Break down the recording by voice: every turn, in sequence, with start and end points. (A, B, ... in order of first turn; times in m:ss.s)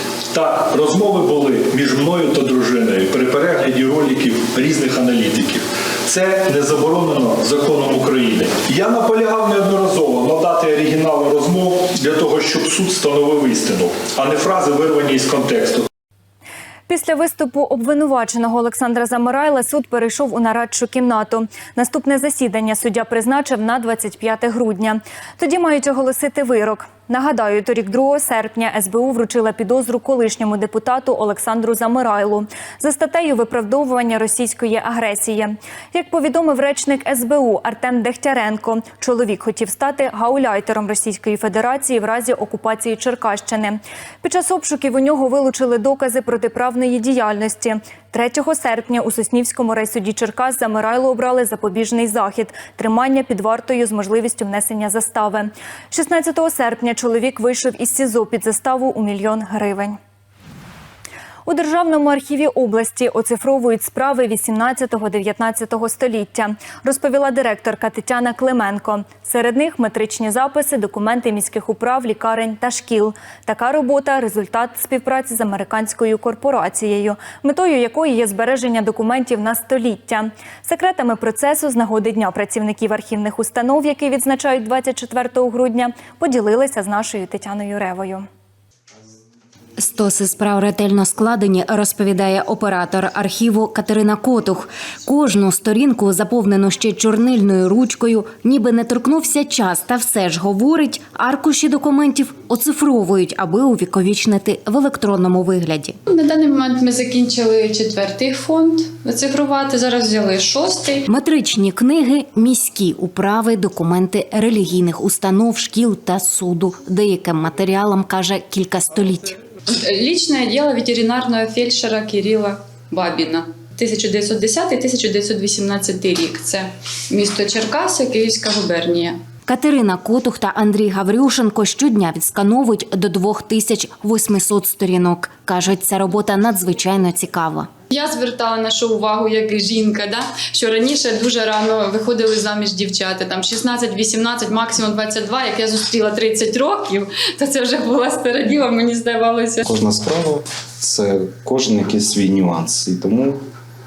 0:00.3-0:15.9 A
0:16.9-1:00.0 B
1:01.5-1:28.2 B
1:29.8-1:46.0 C
1:46.1-1:51.0 D
1:51.0-1:59.4 C
1:59.7-2:09.2 D
2:09.5-2:17.7 C
2:17.9-2:29.6 D
2:29.6-2:33.4 E